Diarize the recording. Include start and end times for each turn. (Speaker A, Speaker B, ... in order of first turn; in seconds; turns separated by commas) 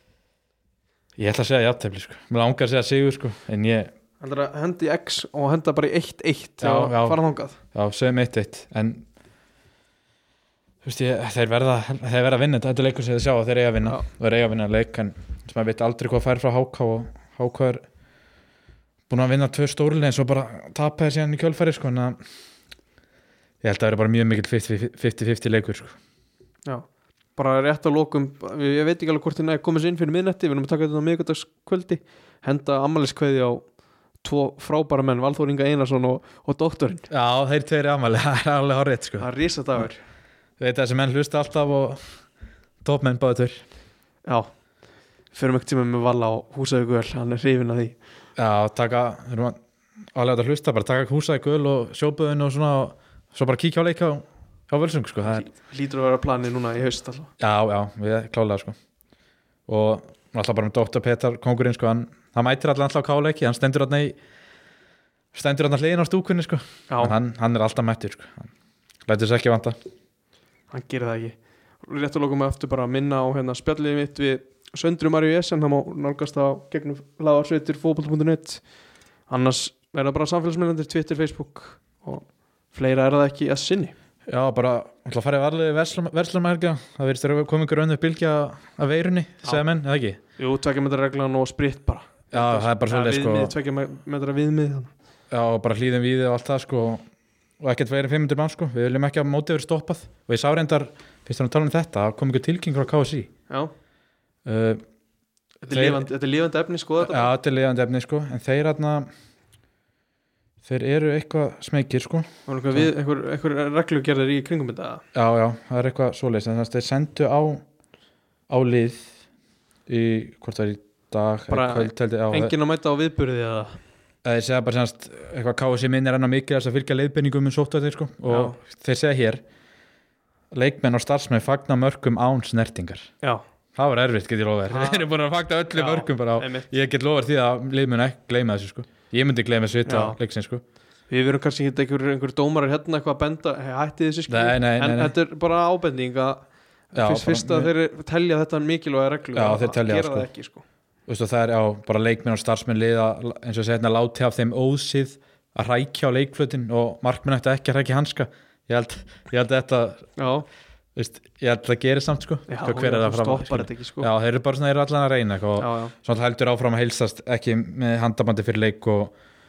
Speaker A: 1.2-3.9, Speaker B: 4.2-7.6, Speaker A: 6.6-7.2, Speaker A: 7.7-9.1, Speaker A: 10.8-17.9, Speaker A: 19.1-22.2, Speaker A: 23.6-26.0, Speaker B: 26.7-33.6, Speaker B: 34.2-37.1, Speaker A: 37.1-39.8, Speaker B: 39.2-40.0, Speaker A: 40.6-42.0, Speaker A: 42.8-43.6, Speaker B: 45.3-48.0, Speaker A: 48.4-49.6, Speaker A: 50.1-55.5, Speaker B: 55.3-57.3, Speaker A: 57.4-58.8, Speaker A: 59.7-64.2, Speaker A: 65.3-68.5, Speaker B: 66.9-67.2, Speaker A: 69.1-69.8, Speaker B: 70.7-78.6, Speaker B: 79.3-83.9, Speaker A: 84.3-90.2, Speaker B: 90.4-94.9, Speaker A: 92.3-93.5, Speaker A: 95.3-97.0, Speaker A: 97.6-103.3, Speaker A: 104.5-104.8, Speaker B: 105.6-107.3, Speaker A: 105.7-106.0, Speaker A: 107.0-109.1, Speaker A: 110.6-112.9, Speaker B: 112.5-115.0, Speaker A: 115.1-117.6, Speaker A: 118.5-119.1, Speaker A: 119.9-122.5, Speaker B: 121.5-123.8, Speaker A: 124.2-129.4, Speaker B: 128.3-128.6, Speaker A: 130.5-133.1, Speaker A: 133.8-140.6, Speaker B: 134.7-135.1, Speaker B: 135.7-136.7, Speaker B: 139.9-140.2, Speaker B: 141.1-150.6, Speaker A: 144.3-145.1, Speaker A: 146.9-147.7, Speaker A: 149.3-150.3, Speaker A: 151.1-160.1, Speaker B: 160.2-160.5, Speaker A: 161.0-169.1, Speaker B: 162.5-164.1, Speaker B: 165.6-165.9